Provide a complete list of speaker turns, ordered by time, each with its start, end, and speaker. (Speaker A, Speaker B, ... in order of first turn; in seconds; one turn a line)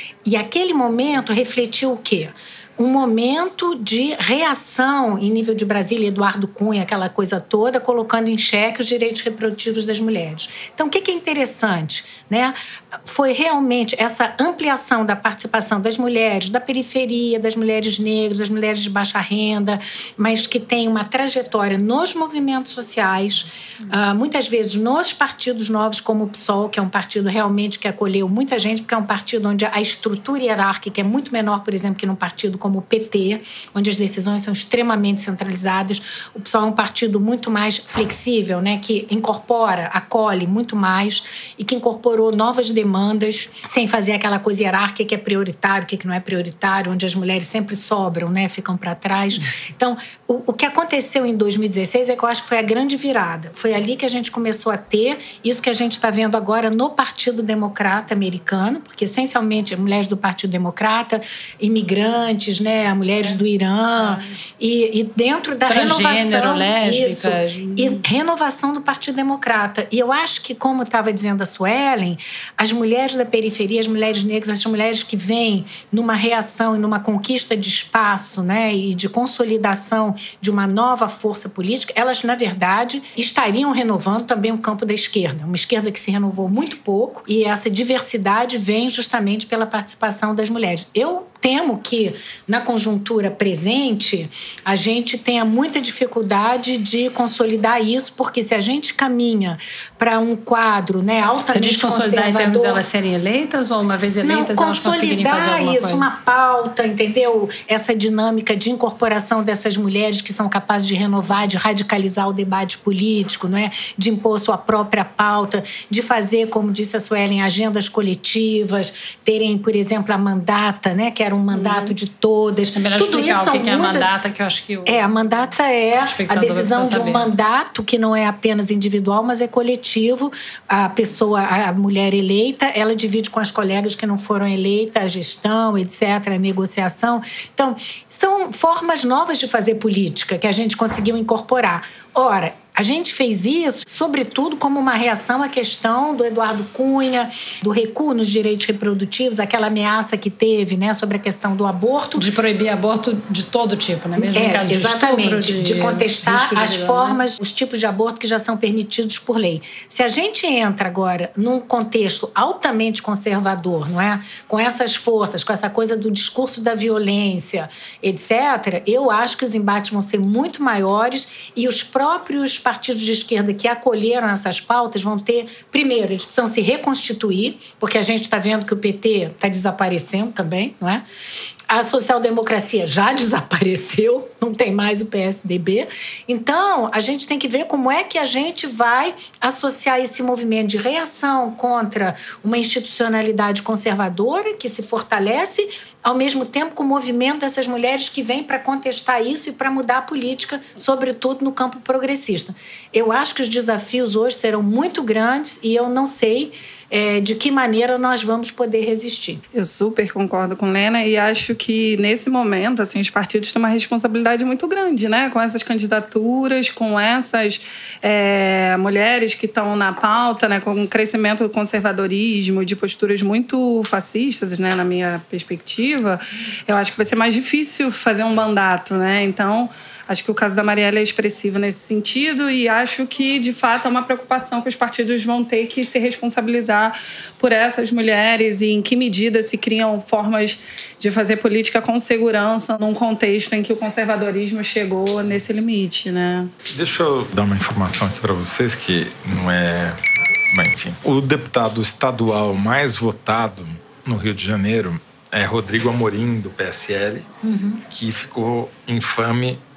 Speaker A: 0.2-102.8
Speaker B: 64.0-64.3
Speaker B: 65.7-68.0
Speaker B: 101.5-106.1
Speaker A: 104.2-124.1
Speaker B: 121.5-121.9
Speaker B: 122.8-125.1
Speaker A: 124.9-152.3
Speaker B: 126.0-127.3
Speaker B: 152.2-157.2
Speaker A: 154.2-181.0
Speaker A: 181.7-209.4
Speaker C: 209.5-246.5
Speaker D: 246.7-250.0
Speaker D: 250.5-257.3
Speaker A: 257.4-257.8
Speaker D: 257.9-259.6